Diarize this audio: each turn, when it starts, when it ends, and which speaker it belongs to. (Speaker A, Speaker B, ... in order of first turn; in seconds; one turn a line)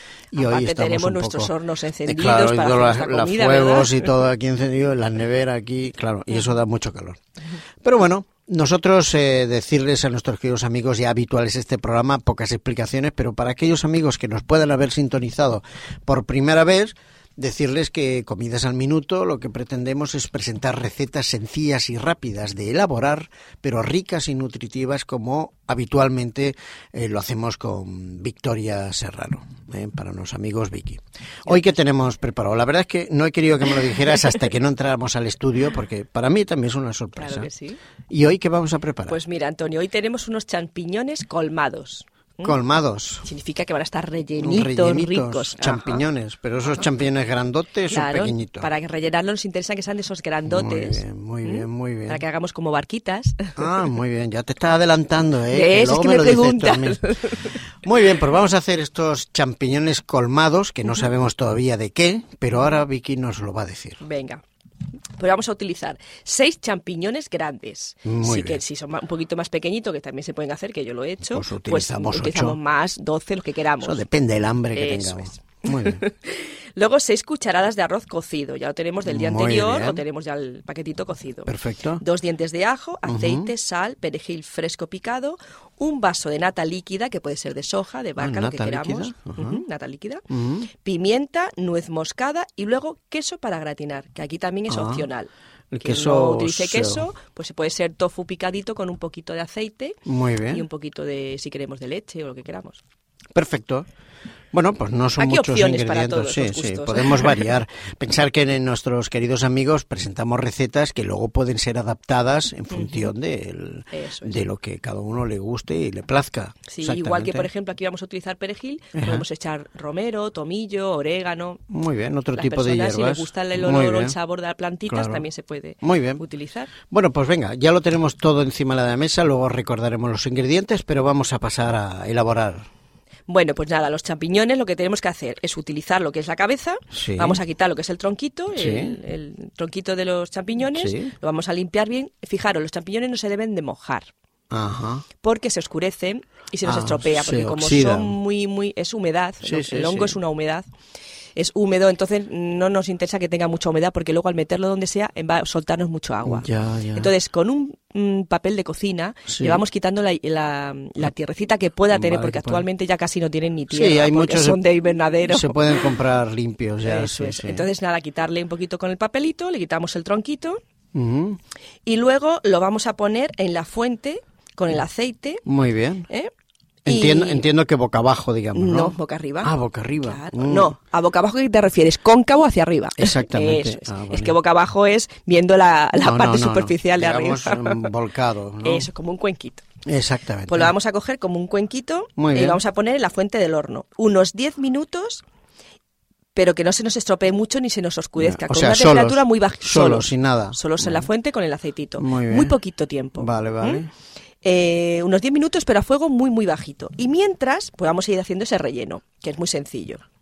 Speaker A: 0.3-1.5
Speaker B: 0.3-4.1
Speaker A: 2.0-7.2
Speaker A: 7.8-37.5
Speaker B: 37.2-37.8
Speaker A: 38.1-39.2
Speaker B: 39.1-42.6
Speaker A: 42.4-43.3
Speaker B: 43.2-46.0
Speaker A: 44.4-48.7
Speaker B: 47.9-53.7
Speaker A: 50.5-52.2
Speaker A: 53.6-57.0
Speaker B: 55.5-57.5
Speaker A: 57.8-64.0
Speaker B: 64.0-64.4
Speaker B: 65.2-74.0
Speaker A: 68.0-68.6
Speaker A: 71.3-72.6
Speaker A: 73.8-76.0
Speaker B: 74.7-90.2
Speaker A: 79.0-80.0
Speaker A: 81.5-82.0
Speaker A: 83.0-83.5
Speaker A: 88.2-89.6
Speaker A: 90.3-90.7
Speaker B: 90.8-95.3
Speaker A: 94.7-95.0
Speaker A: 95.7-97.0
Speaker B: 95.8-102.8
Speaker A: 100.0-100.7
Speaker A: 103.3-103.9
Speaker A: 104.5-117.5
Speaker B: 105.2-107.5
Speaker B: 112.7-113.1
Speaker B: 113.9-114.4
Speaker B: 116.7-121.6
Speaker A: 118.9-119.2
Speaker A: 121.7-124.2
Speaker B: 122.3-126.7
Speaker A: 124.9-125.2
Speaker A: 125.8-126.2
Speaker A: 126.9-132.7
Speaker B: 133.3-144.1
Speaker A: 136.9-137.4
Speaker A: 138.5-139.0
Speaker A: 140.7-141.1
Speaker A: 144.5-145.0
Speaker B: 145.2-150.6
Speaker A: 146.6-148.2
Speaker A: 149.4-150.2
Speaker B: 151.3-165.9
Speaker A: 156.2-157.1
Speaker A: 159.3-159.6
Speaker A: 161.9-162.7
Speaker A: 163.7-164.6
Speaker A: 165.2-167.7
Speaker B: 166.8-170.6
Speaker A: 170.9-171.4
Speaker B: 171.8-175.4
Speaker A: 175.4-176.1
Speaker A: 176.8-180.8
Speaker B: 176.9-177.4
Speaker B: 178.5-187.9
Speaker A: 183.0-184.4
Speaker A: 186.0-188.9
Speaker B: 188.6-189.7
Speaker A: 189.8-190.7
Speaker B: 190.5-195.2
Speaker A: 192.2-192.6
Speaker B: 196.3-203.9
Speaker A: 198.2-201.1
Speaker A: 202.0-202.5
Speaker A: 203.2-203.9
Speaker B: 204.4-210.0